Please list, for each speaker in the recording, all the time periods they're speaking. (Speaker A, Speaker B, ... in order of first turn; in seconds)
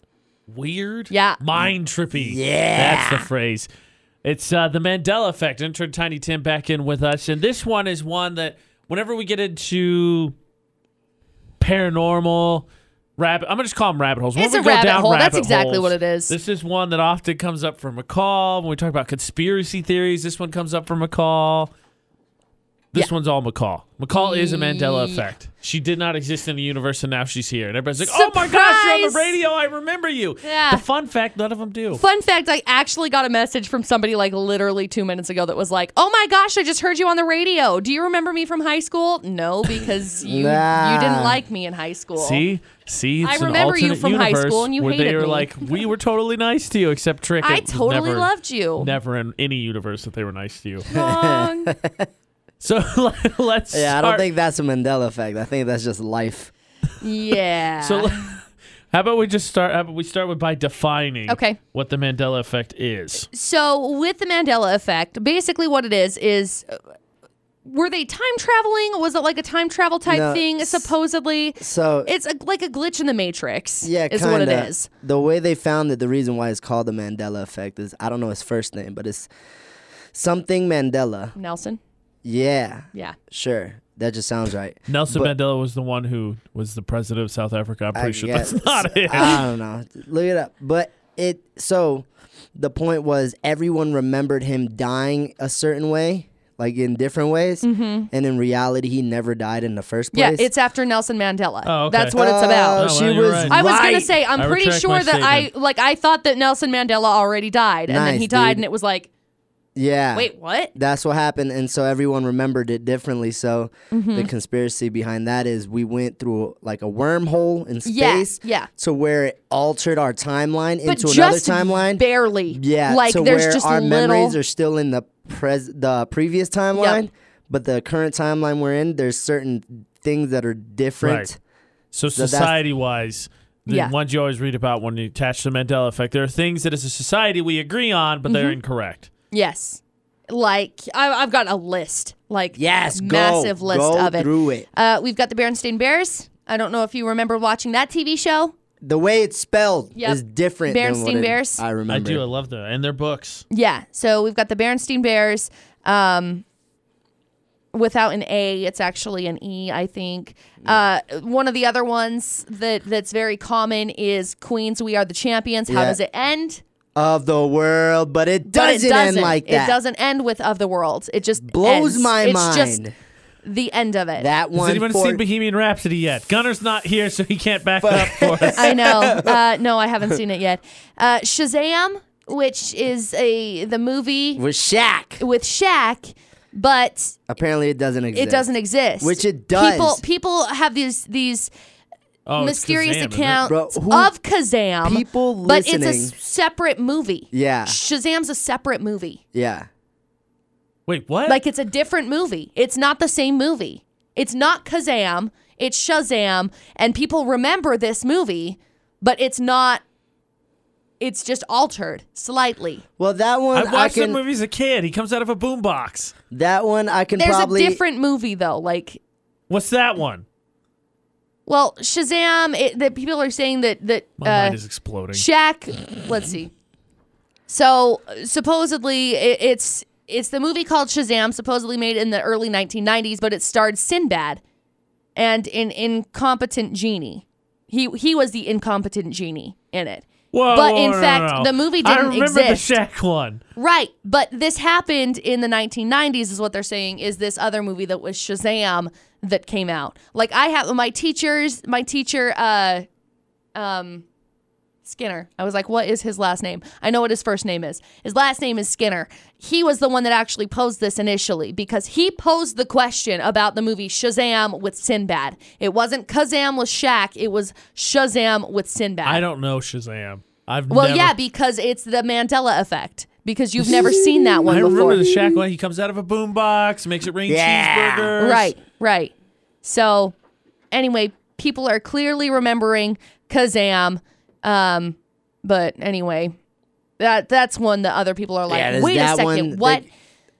Speaker A: 0.5-3.7, 4.2-10.3, 11.6-21.7, 22.9-32.0, 42.2-50.9, 52.6-54.2, 57.8-58.4, 58.9-63.3, 84.9-89.5, 101.6-102.2, 102.8-103.6, 104.3-105.5, 131.0-131.3, 131.9-139.1, 151.9-153.4, 174.5-178.7, 192.3-193.5, 200.9-201.4, 213.5-216.1, 219.5-220.2, 224.2-225.2, 240.3-243.4, 269.0-271.1, 274.5-278.5
Speaker B: 1.1-1.4, 14.3-16.3, 24.1-25.2, 28.0-29.3, 30.4-30.8, 32.0-42.4, 43.2-45.6, 47.4-48.9, 50.9-51.7, 57.0-58.3, 61.3-61.6, 63.3-66.7, 67.7-74.9, 81.3-81.8, 97.6-98.1, 100.1-102.8, 103.5-109.1, 110.1-110.7, 113.9-114.3, 117.8-118.7, 120.8-124.3, 133.7-133.9, 138.3-138.6, 139.3-148.5, 149.9-151.6, 153.5-156.4, 157.7-166.6, 168.4-172.8, 173.4-174.3, 178.6-184.4, 185.2-187.2, 188.1-191.5, 192.4-199.2, 201.3-209.8, 211.0-212.8, 217.2-219.0, 221.5-224.6, 225.1-226.5, 227.5-234.4, 235.2-242.6, 243.6-252.8, 253.5-254.0, 254.8-269.2, 270.7-275.0, 278.2-279.1, 279.6-280.1, 280.7-286.3, 287.0-289.9
Speaker C: 2.2-3.3, 40.2-41.4, 50.9-52.1, 53.7-56.5, 70.1-70.9, 71.6-72.1, 73.8-79.3, 80.1-81.3, 82.2-85.3, 87.9-100.5, 102.1-104.1, 107.9-108.6, 109.7-131.4, 132.1-132.6, 142.6-144.7, 148.8-152.2, 165.7-166.0, 166.9-169.8, 171.4-172.9, 174.2-175.2, 177.8-179.4, 184.4-185.2, 187.3-188.5, 189.0-190.0, 193.4-194.1, 194.8-196.1, 197.3-197.8, 199.3-199.7, 213.0-214.2, 216.3-217.8, 273.6-275.4, 277.3-278.1, 288.5-289.8